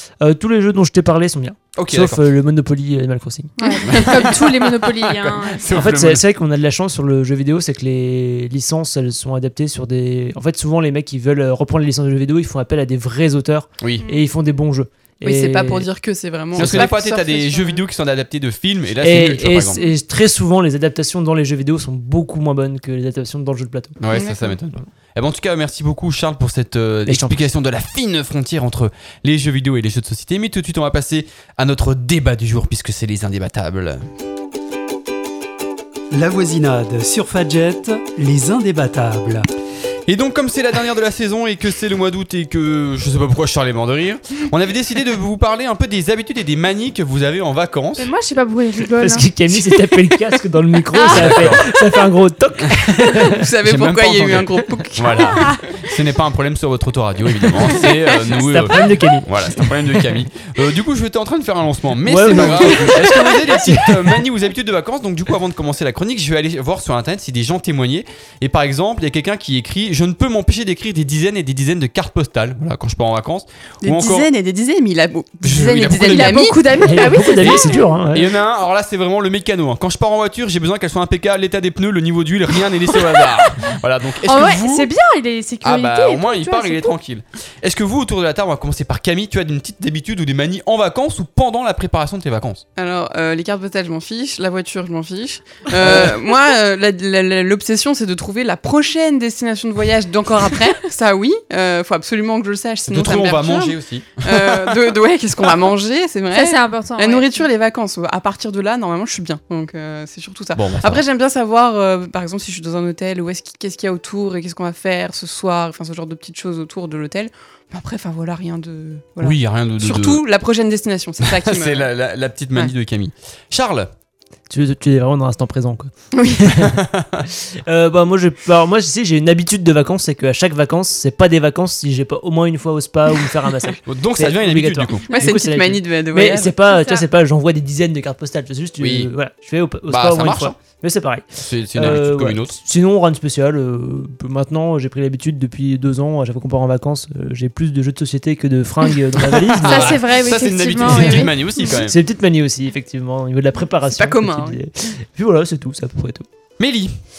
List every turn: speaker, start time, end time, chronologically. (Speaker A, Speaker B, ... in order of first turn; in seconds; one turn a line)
Speaker A: 0.2-3.5
Speaker B: 1.8-2.2
Speaker C: 3.6-5.7
Speaker B: 3.9-6.2
Speaker A: 5.7-15.8
Speaker D: 15.2-17.8
Speaker A: 16.6-16.9
Speaker B: 16.6-19.8
Speaker A: 19.0-24.0
Speaker B: 24.0-34.1
Speaker D: 24.1-24.6
Speaker A: 27.1-27.4
Speaker E: 36.1-39.5
Speaker B: 40.1-48.1
Speaker C: 48.0-49.3
Speaker A: 49.0-53.4
Speaker C: 51.0-51.5
Speaker B: 51.1-51.6
Speaker D: 53.3-55.6
Speaker B: 53.6-74.3
Speaker A: 58.2-60.0
Speaker A: 62.0-64.2
Speaker D: 73.8-76.7
Speaker B: 75.4-76.5
Speaker C: 76.0-77.8
Speaker A: 76.8-78.3
Speaker B: 77.4-84.9
Speaker C: 84.2-86.9
Speaker B: 85.6-92.6
Speaker D: 92.8-121.9
Speaker B: 95.8-96.2
Speaker B: 102.9-104.9
Speaker C: 106.3-107.4
Speaker B: 110.5-111.0
Speaker B: 119.2-120.2
Speaker B: 121.2-123.9
Speaker A: 124.5-150.0
Speaker B: 126.6-127.2
Speaker B: 133.9-135.0
Speaker D: 135.1-136.6
Speaker C: 136.7-137.0
Speaker B: 138.8-139.1
Speaker B: 139.9-140.5
Speaker B: 141.4-142.6
Speaker B: 149.2-152.0
Speaker C: 149.6-151.7
Speaker A: 150.8-156.3
Speaker D: 153.9-154.6
Speaker B: 156.6-157.0